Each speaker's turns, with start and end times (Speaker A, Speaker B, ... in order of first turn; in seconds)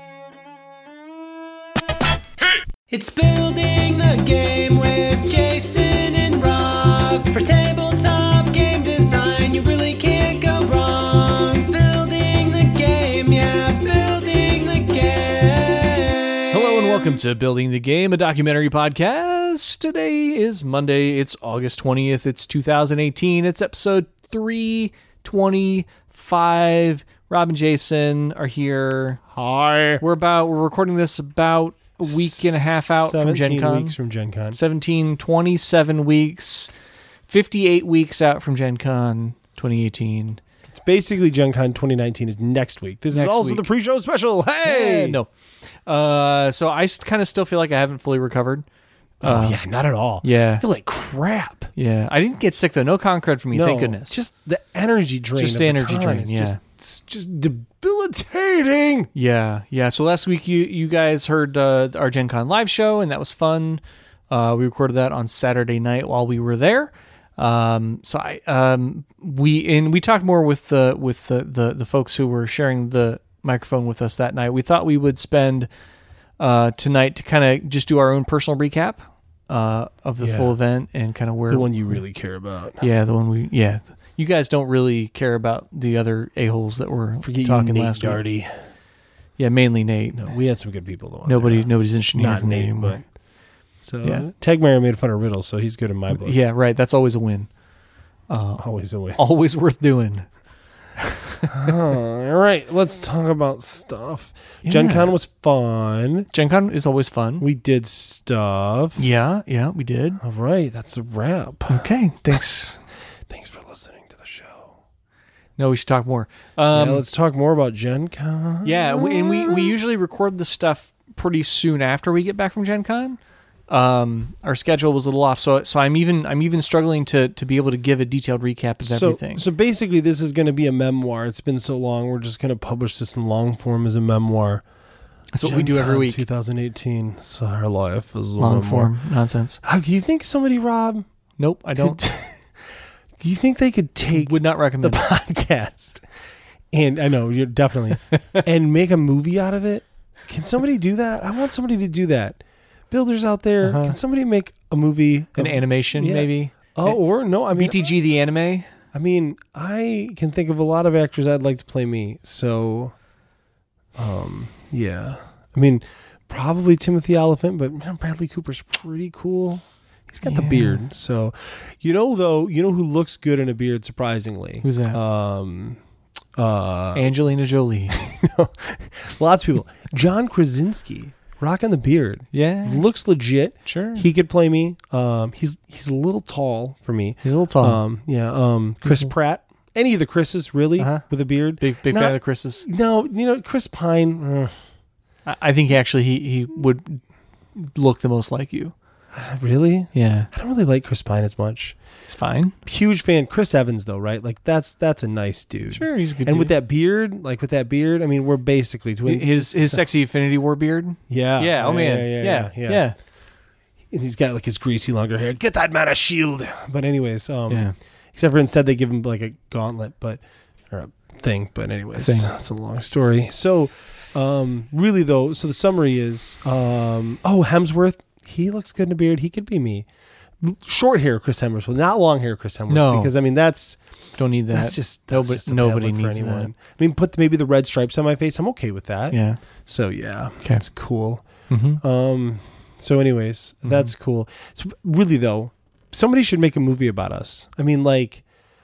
Speaker A: 2.9-17.2
Speaker B: 16.5-29.2, 30.0-34.0, 34.5-36.7, 37.3-40.4, 43.1-43.7, 44.6-45.3, 45.9-48.6, 49.2-49.6, 50.2-50.6, 51.8-54.2, 55.3-56.6, 59.1-75.7, 76.4-82.0, 82.8-88.2, 89.4-90.3, 91.2-93.0, 96.1-97.5, 98.3-100.2, 101.2-101.7, 104.6-105.1, 106.3-107.4, 109.0-110.2, 111.7-112.8, 115.6-117.0, 118.6-123.2, 123.7-129.4, 135.3-136.2, 138.4-139.6, 141.4-142.0, 144.1-145.0, 148.1-148.4, 153.6-153.9, 155.3-157.0, 157.5-158.7, 170.2-170.8, 174.6-175.0, 176.9-178.0, 182.3-182.8, 183.7-184.1, 187.2-187.8, 188.8-189.1, 190.8-191.0, 191.6-192.6, 195.2-198.7, 199.9-200.3, 202.1-202.5, 205.7-206.6, 209.1-212.9, 217.5-217.7, 222.0-222.3, 232.7-233.1, 234.2-236.5, 239.1-239.4, 241.5-241.8, 243.6-243.9
Speaker C: 29.3-30.0, 32.0-34.6, 40.7-45.2, 49.2-51.7, 53.5-59.1, 80.2-80.6, 81.5-82.9, 87.2-88.5, 90.1-93.0, 93.8-96.4, 98.6-99.2, 101.5-106.3, 107.4-109.0, 110.2-111.8, 113.3-114.7, 116.7-119.7, 128.8-134.6, 135.4-138.9, 139.6-141.1, 141.7-142.4, 143.2-146.0, 146.7-157.9, 158.9-162.9, 163.9-175.8, 176.3-177.1, 177.9-194.5, 199.1-201.8, 202.7-209.8, 211.1-212.8, 213.9-229.8, 230.4-233.8, 234.5-241.2, 241.8-248.2